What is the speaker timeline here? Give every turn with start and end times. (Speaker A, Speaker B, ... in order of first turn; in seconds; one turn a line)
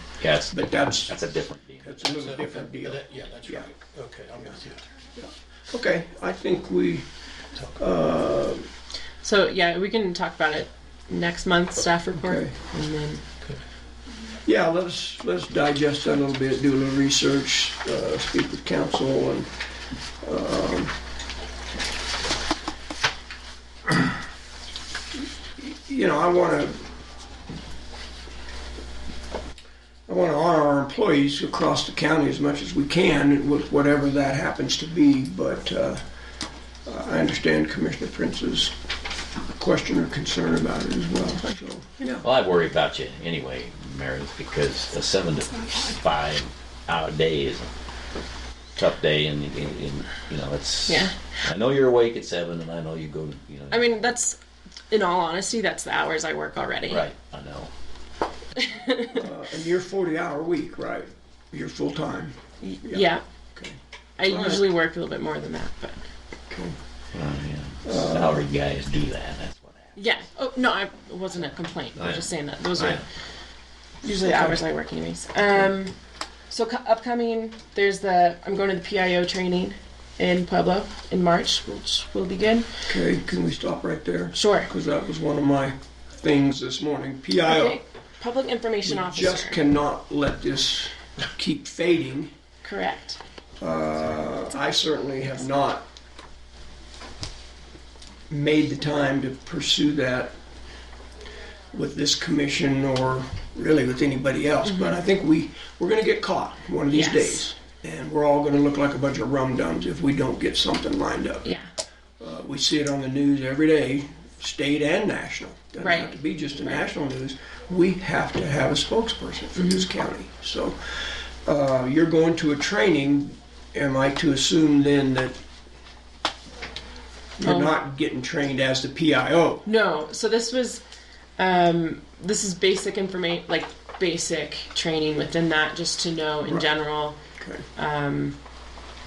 Speaker A: 0.2-1.9
Speaker B: 0.5-1.2
Speaker B: 1.8-3.7
Speaker C: 2.0-4.9
Speaker B: 5.2-7.1
Speaker B: 7.8-8.7
Speaker D: 9.2-13.2
Speaker B: 12.2-12.6
Speaker B: 14.4-19.5
Speaker B: 20.2-20.9
Speaker B: 25.6-26.8
Speaker B: 30.1-36.0
Speaker B: 36.9-38.7
Speaker B: 39.5-42.2
Speaker A: 42.2-47.7
Speaker A: 48.8-54.1
Speaker D: 50.9-51.2
Speaker D: 53.7-54.4
Speaker D: 54.9-57.0
Speaker A: 56.9-57.7
Speaker D: 58.6-59.2
Speaker B: 59.1-64.6
Speaker D: 62.6-63.2
Speaker D: 64.2-66.0
Speaker B: 66.5-66.8
Speaker A: 67.1-70.0
Speaker B: 67.8-68.4
Speaker D: 70.0-73.0
Speaker A: 72.0-73.0
Speaker D: 74.0-76.0
Speaker B: 74.1-74.6
Speaker D: 76.5-82.7
Speaker B: 82.9-87.8
Speaker D: 84.3-84.7
Speaker D: 87.5-89.6
Speaker B: 88.9-92.3
Speaker D: 92.6-93.2
Speaker B: 93.6-95.9
Speaker B: 98.3-100.4
Speaker B: 101.7-111.5
Speaker D: 104.7-105.0
Speaker D: 106.9-107.5
Speaker B: 112.2-125.4
Speaker D: 115.8-116.2
Speaker D: 119.6-119.9
Speaker B: 127.4-129.7
Speaker D: 127.4-127.8
Speaker D: 129.7-130.8
Speaker D: 131.4-137.2
Speaker B: 137.4-137.7
Speaker D: 137.8-138.4